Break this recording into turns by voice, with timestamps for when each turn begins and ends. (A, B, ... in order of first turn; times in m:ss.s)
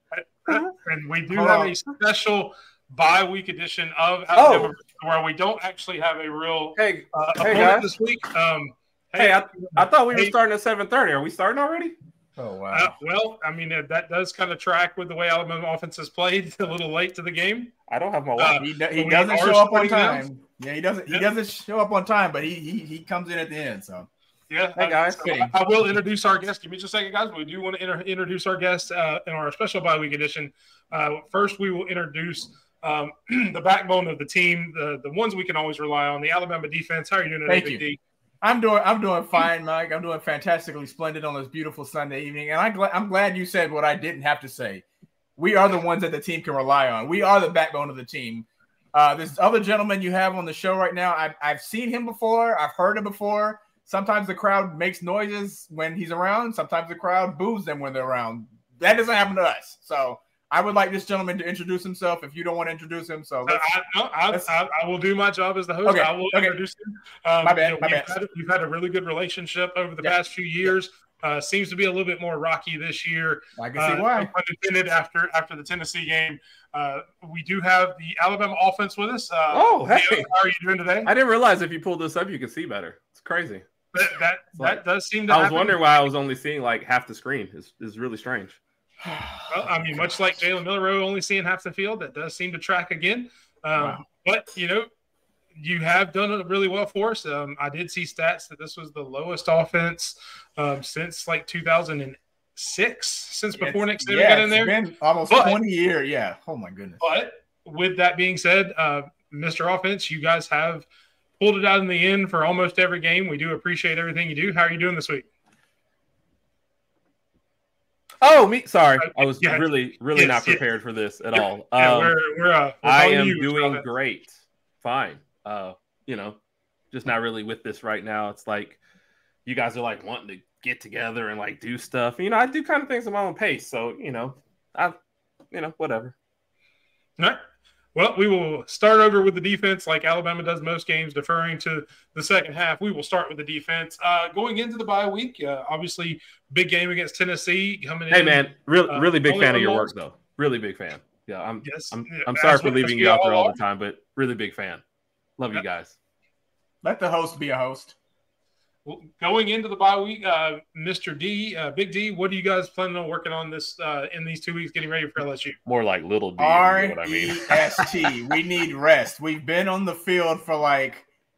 0:00.1-0:10.3 A
0:00.5-0:00.7 B
0:01.3-0:01.7 B
0:04.3-0:04.7 B
0:06.8-0:07.9 B
0:09.2-0:11.9 B
0:12.4-0:12.9 C
0:12.7-0:17.7 A
0:17.9-0:18.6 B
0:18.4-0:20.2 A
0:18.5-0:24.1 C
0:24.5-0:38.0 A
0:24.7-0:25.3 B
0:25.1-0:25.5 C
0:37.4-0:37.8 C
0:38.4-0:44.8 C
0:45.4-1:03.6 C
1:03.5-1:21.1 A
1:05.8-1:06.6 C
1:07.4-1:08.1 C
1:10.0-1:10.7 C
1:13.6-1:14.3 C
1:19.5-1:20.3 B
1:21.0-1:23.7 B
1:23.9-1:25.8 A
1:24.6-1:28.6 B
1:29.0-1:30.1 C
1:29.5-1:34.9 A
1:33.8-1:34.0 C
1:35.5-1:44.8 A
1:43.6-1:47.0 C
1:45.3-1:45.6 A
1:47.0-1:50.9 A
1:51.4-1:55.3 A
1:58.2-2:02.2 B
1:59.0-2:00.6 A
2:01.3-2:03.8 A
2:02.8-2:06.4 B
2:06.9-2:08.8 B
2:09.4-2:15.0 B
2:15.5-2:16.1 B
2:17.9-2:29.9 A
2:28.1-2:34.8 B
2:31.6-2:33.6 A
2:35.4-2:36.0 B
2:36.8-2:37.9 C
2:38.8-2:45.6 A
2:45.6-2:48.1 B
2:46.4-2:51.0 C